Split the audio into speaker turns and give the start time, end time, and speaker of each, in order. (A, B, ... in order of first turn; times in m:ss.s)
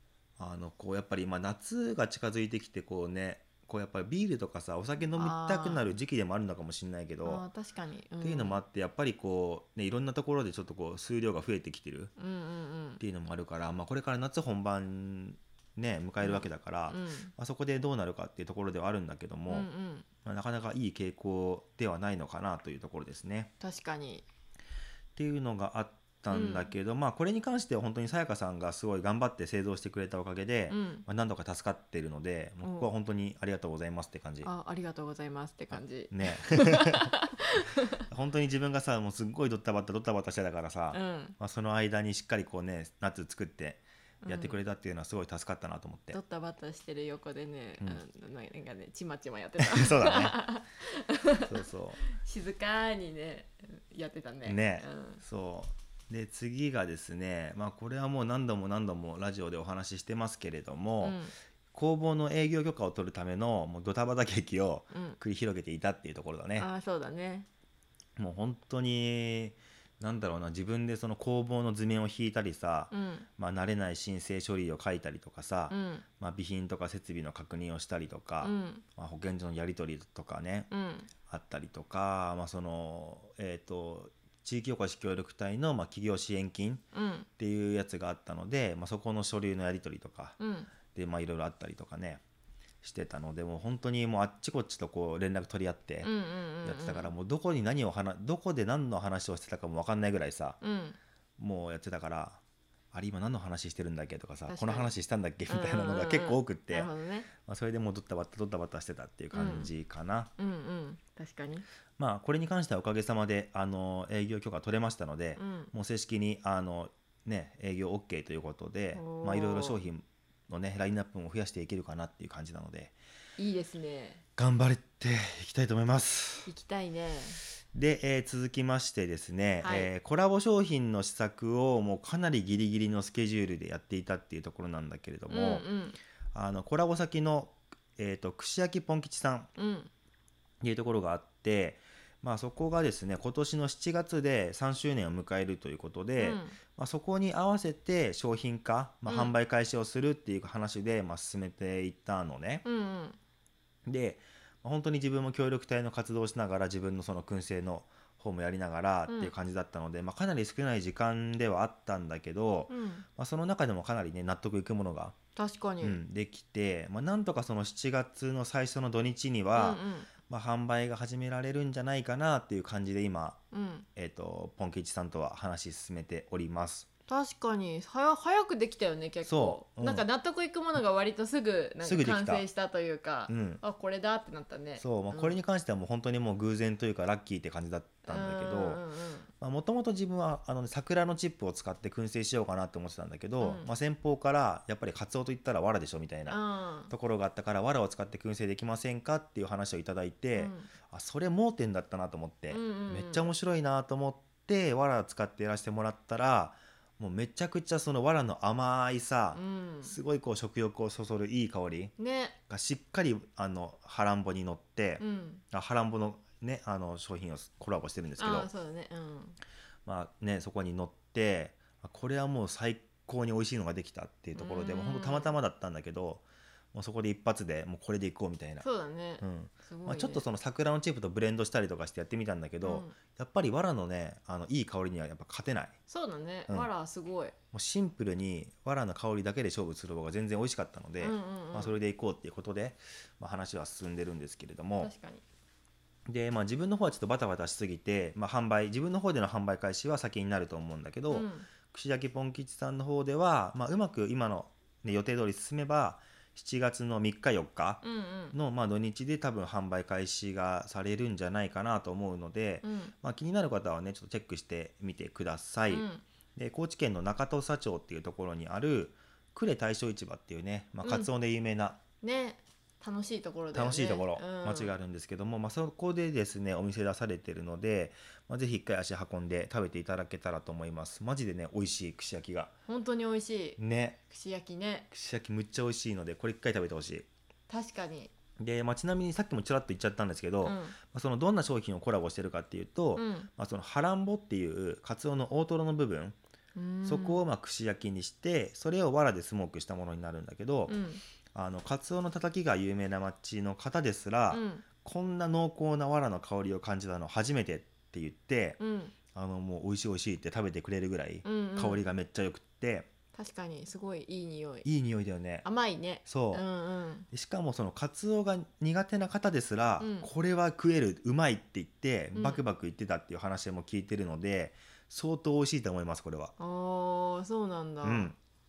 0:00.4-0:07.4 A
0:05.1-0:05.9 B
0:07.2-0:08.6 B
0:08.2-0:12.1 A
0:12.2-0:13.0 B
0:13.0-0:19.7 A
0:16.2-0:17.3 B
0:19.5-0:20.0 B
0:20.2-0:23.5 A
0:23.6-0:24.2 B
0:25.2-0:34.5 A
0:26.3-0:26.7 B
0:30.7-0:31.0 B
0:32.6-0:32.9 B
0:34.4-0:37.9 B
0:35.7-0:37.1 A
0:38.1-0:46.2 A
0:40.9-0:41.4 B
0:44.2-0:44.6 B
0:46.1-0:55.2 B
0:49.6-0:50.4 A
0:51.4-0:52.0 A
0:54.4-1:01.2 A
1:01.0-1:01.3 B
1:01.7-1:06.7 A
1:04.9-1:05.2 B
1:06.6-1:07.5 B
1:08.2-1:20.7 A
1:12.9-1:13.3 B
1:15.7-1:16.0 B
1:18.4-1:18.8 B
1:20.7-1:21.1 B
1:21.3-1:26.8 A
1:26.9-1:27.3 B
1:27.4-1:30.4 A
1:30.4-1:30.7 B
1:30.9-1:32.2 A
1:32.8-1:36.1 A
1:36.0-1:37.1 B
1:36.6-1:40.6 A
1:40.6-1:41.0 B
1:41.4-1:42.4 A
1:42.9-1:46.9 A
1:44.5-1:44.9 B
1:45.5-1:47.3 B
1:47.4-1:50.3 A
1:49.3-1:49.7 B
1:50.4-1:51.6 B
1:52.0-2:02.9 A
1:55.4-1:55.7 B
1:58.9-1:59.8 B
2:03.4-2:04.2 B
2:04.4-2:06.5 A
2:06.4-2:07.4 B
2:07.7-2:15.6 A
2:09.6-2:09.9 B
2:15.3-2:16.0 B
2:16.3-2:19.5 A
2:19.6-2:19.9 B
2:20.6-2:32.6 A
2:26.2-2:26.6 B
2:29.1-2:29.3 B
2:32.6-2:33.2 B
2:33.8-2:45.1 A
2:39.1-2:39.3 B
2:42.7-2:43.0 B
2:45.4-2:46.0 B
2:45.8-2:53.4 A
2:49.5-2:50.1 B
2:53.5-2:53.8 B
2:54.0-2:56.9 A
2:57.1-3:05.4 B
2:59.2-3:00.0 A
3:01.8-3:02.4 A
3:03.3-3:03.6 A
3:04.8-3:08.8 A
3:08.0-3:09.3 B
3:09.4-3:31.9 A
3:13.4-3:13.7 B
3:16.3-3:16.9 B
3:20.3-3:20.7 B
3:22.5-3:23.3 B
3:29.3-3:30.0 B
3:32.0-3:32.4 B
3:32.5-3:38.5 A
3:35.0-3:35.4 B
3:38.2-3:39.4 B
3:39.8-3:48.6 A
3:44.4-3:45.3 B
3:48.6-3:50.2 B
3:49.2-3:55.8 A
3:52.6-3:52.9 B
3:55.9-3:57.3 B
3:57.5-4:04.9 A
4:01.0-4:01.7 B
4:04.8-4:05.2 B
4:06.1-4:31.8 A
4:11.1-4:11.5 B
4:17.8-4:18.3 B
4:22.6-4:22.9 B
4:25.7-4:26.0 B
4:30.8-4:31.1 B
4:32.0-4:34.7 B
4:33.5-4:42.5 A
4:42.7-4:44.9 B
4:43.6-4:44.0 A
4:44.9-4:47.1 A
4:47.5-4:48.1 B
4:48.4-4:56.2 A
4:50.4-4:50.8 B
4:52.9-4:53.3 B
4:56.5-4:57.2 B
4:56.8-5:00.8 A
5:00.7-5:01.0 B
5:01.3-5:08.6 A
5:04.3-5:04.6 B
5:08.6-5:08.9 B
5:09.1-5:12.9 A
5:11.2-5:11.9 B
5:13.1-5:14.7 B
5:14.6-5:15.4 A
5:15.4-5:17.1 B
5:16.0-5:16.4 A
5:17.1-5:26.3 A
5:19.8-5:20.1 B
5:22.1-5:22.4 B
5:26.4-5:28.1 B
5:27.8-5:28.2 A